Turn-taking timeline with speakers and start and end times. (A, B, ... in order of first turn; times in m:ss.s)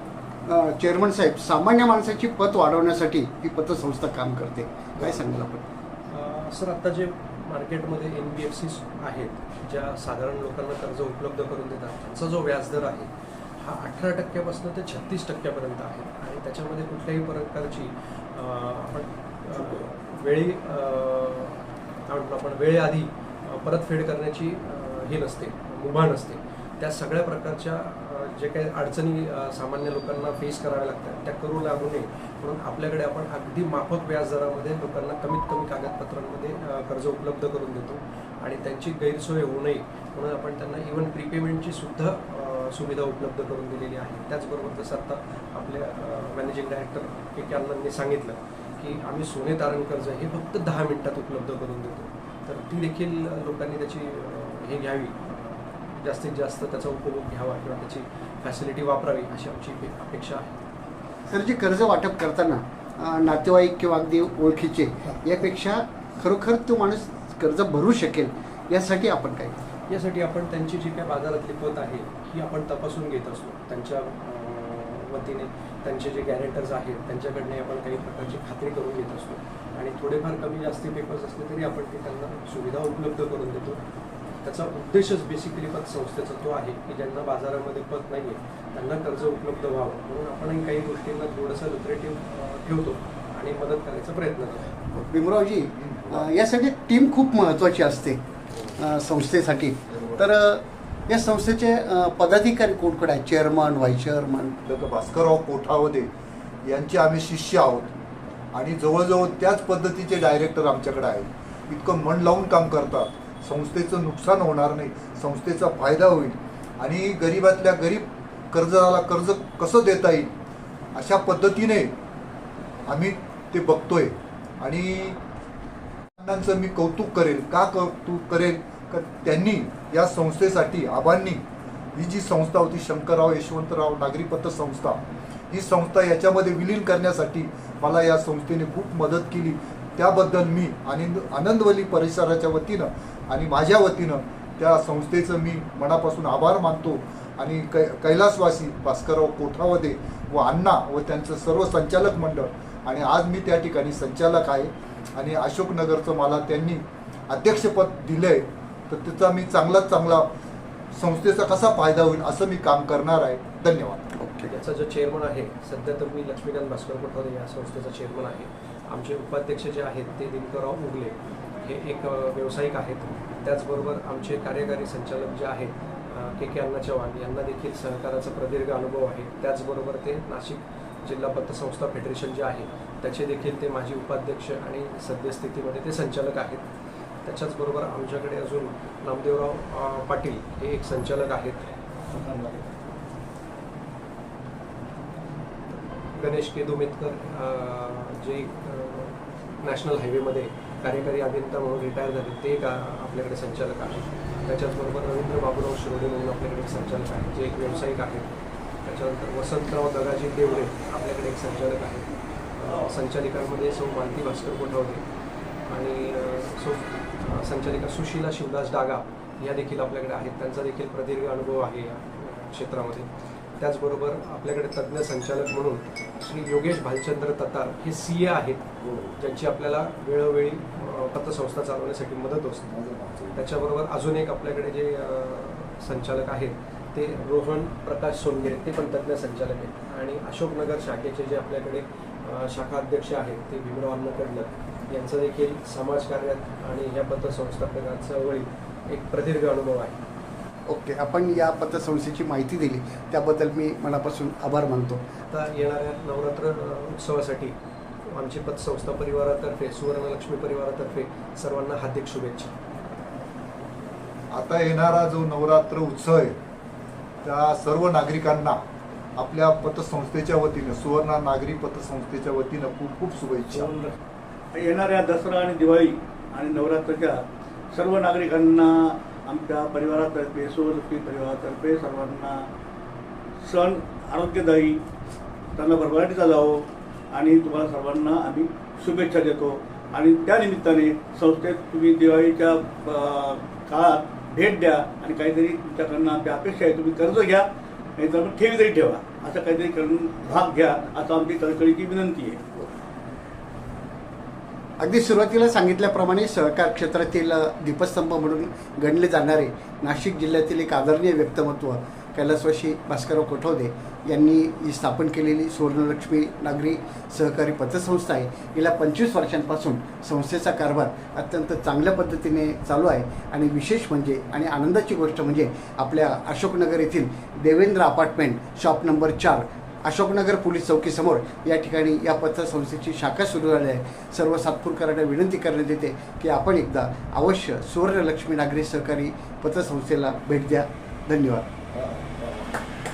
0:00.4-0:05.6 A
0:06.1-1:00.6 B
1:01.3-1:09.5 A
1:09.9-1:23.8 B
1:24.4-1:34.8 B
1:34.9-1:38.2 A
1:35.8-1:36.3 C
1:38.7-1:44.5 A
1:44.6-1:46.1 C
1:46.6-1:48.0 C
1:48.5-2:00.3 C
2:00.9-2:01.9 C
2:02.8-2:05.2 C
2:06.2-2:11.4 C
2:12.0-2:40.3 C
2:40.9-2:44.1 C
2:44.2-2:44.5 A
2:44.4-3:06.6 B
3:07.2-3:11.6 B
3:12.1-3:12.6 D
3:15.7-3:35.0 B
3:35.7-3:43.1 B
3:43.6-3:52.7 B
3:48.8-3:49.1 C
3:52.6-3:53.4 C
3:53.3-4:10.0 B
4:10.7-4:15.0 A
4:15.3-4:22.5 B
4:24.3-4:26.4 C
4:27.2-4:28.6 C
4:29.2-4:33.7 C
4:33.5-4:34.0 D
4:34.5-4:37.2 D
4:37.7-4:42.4 D
4:43.4-4:44.8 D
4:45.6-4:57.4 D
4:58.0-5:02.6 D
5:04.8-5:41.5 A
5:41.7-5:42.5 C